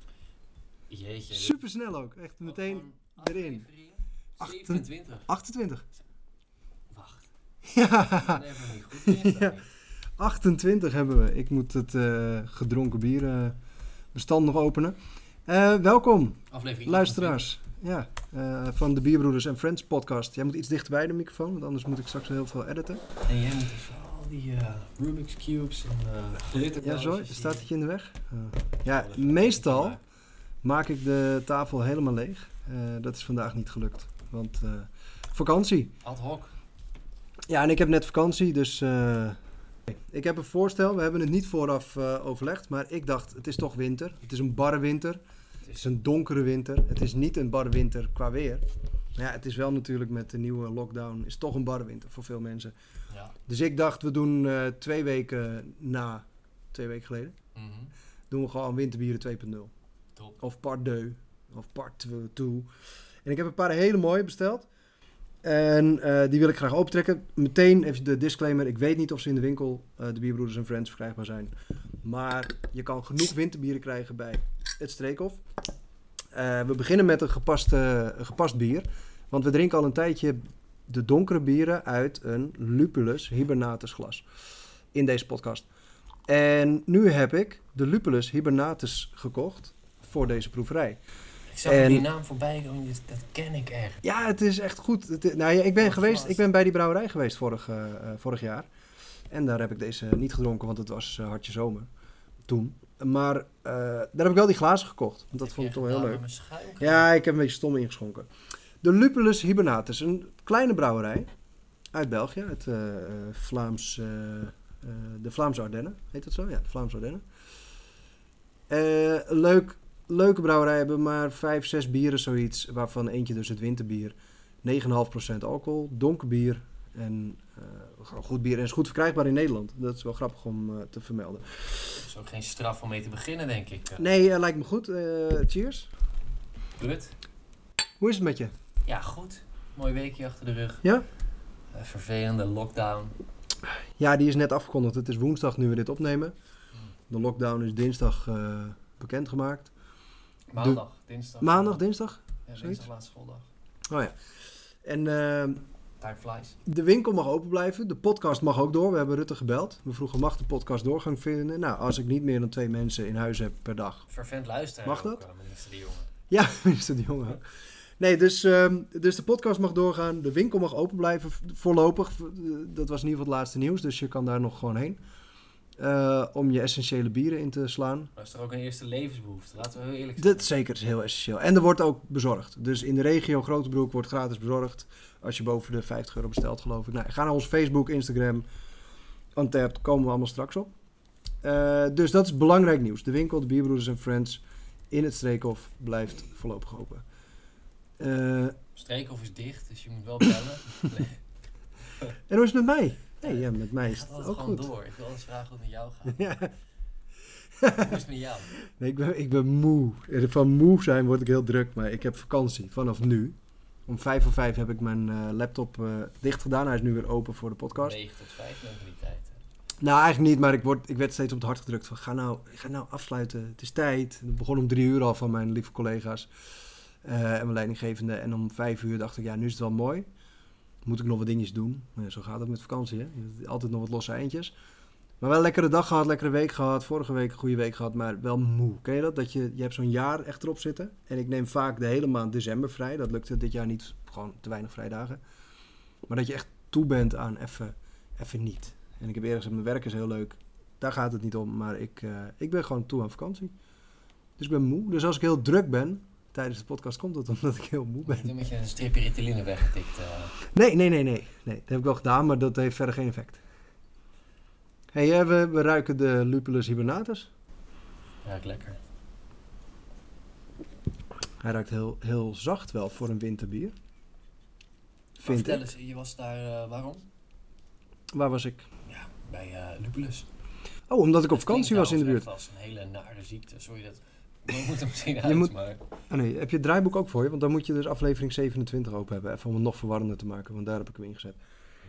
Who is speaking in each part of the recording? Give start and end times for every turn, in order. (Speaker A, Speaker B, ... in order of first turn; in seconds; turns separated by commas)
Speaker A: 0.9-1.6, Speaker B: 1.3-3.6, Speaker A: 2.4-5.3, Speaker B: 4.4-5.8, Speaker A: 6.9-7.2, Speaker B: 7.6-9.6, Speaker A: 8.0-9.7, Speaker B: 10.2-13.6, Speaker B: 14.1-23.1, Speaker A: 16.5-17.4, Speaker A: 23.2-27.7, Speaker B: 26.8-30.0, Speaker A: 28.8-30.0, Speaker B: 30.6-35.9, Speaker A: 36.0-36.5, Speaker B: 37.5-45.2, Speaker A: 45.6-45.9, Speaker B: 45.7-48.6, Speaker B: 49.1-52.7, Speaker A: 53.1-53.4, Speaker B: 53.5-57.4, Speaker A: 57.5-57.9, Speaker B: 58.3-59.7, Speaker B: 60.4-62.7, Speaker B: 63.2-64.7, Speaker B: 65.4-71.5, Speaker B: 72.0-75.4, Speaker B: 76.3-84.2, Speaker B: 84.9-85.7, Speaker B: 86.3-91.0, Speaker A: 91.5-94.0, Speaker B: 91.6-92.1, Speaker B: 94.0-98.7, Speaker A: 95.8-96.4, Speaker B: 99.3-101.9, Speaker B: 102.5-106.2, Speaker A: 105.4-107.1, Speaker B: 106.8-108.3, Speaker B: 108.8-111.3, Speaker B: 111.9-117.2, Speaker B: 118.7-131.9, Speaker A: 131.9-134.2, Speaker B: 134.0-135.9, Speaker A: 136.8-137.1, Speaker B: 138.0-138.5, Speaker A: 138.8-140.8, Speaker A: 141.7-143.1, Speaker B: 143.7-146.3, Speaker B: 147.1-149.7, Speaker A: 150.5-151.8, Speaker B: 151.4-152.9, Speaker A: 152.5-153.5, Speaker B: 153.9-154.2, Speaker B: 154.8-155.6, Speaker A: 156.0-156.6, Speaker B: 156.7-164.1, Speaker A: 164.1-166.1, Speaker B: 164.8-165.2, Speaker B: 166.3-167.4, Speaker B: 168.0-175.0, Speaker B: 175.8-178.1, Speaker A: 178.1-180.5, Speaker B: 180.2-188.4, Speaker B: 189.3-190.7, Speaker B: 191.4-197.0, Speaker B: 198.0-198.6, Speaker A: 198.8-201.2, Speaker B: 202.3-204.7, Speaker A: 203.2-206.4, Speaker B: 206.1-206.5, Speaker B: 207.6-208.0, Speaker A: 207.7-208.5, Speaker B: 208.6-213.3, Speaker B: 213.9-218.0, Speaker A: 217.8-219.4, Speaker B: 219.8-226.3, Speaker B: 227.0-230.1, Speaker B: 230.8-234.5, Speaker B: 235.2-245.2, Speaker B: 246.1-253.5, Speaker B: 254.4-258.3, Speaker A: 258.1-260.4, Speaker B: 260.5-263.4, Speaker B: 264.9-267.3, Speaker A: 268.2-268.8, Speaker B: 271.4-273.7, Speaker B: 275.2-275.6, Speaker A: 275.2-277.1, Speaker B: 278.1-278.7, Speaker A: 278.9-280.3, Speaker B: 280.9-282.3, Speaker A: 281.3-285.8, Speaker B: 285.2-285.5, Speaker B: 286.1-291.4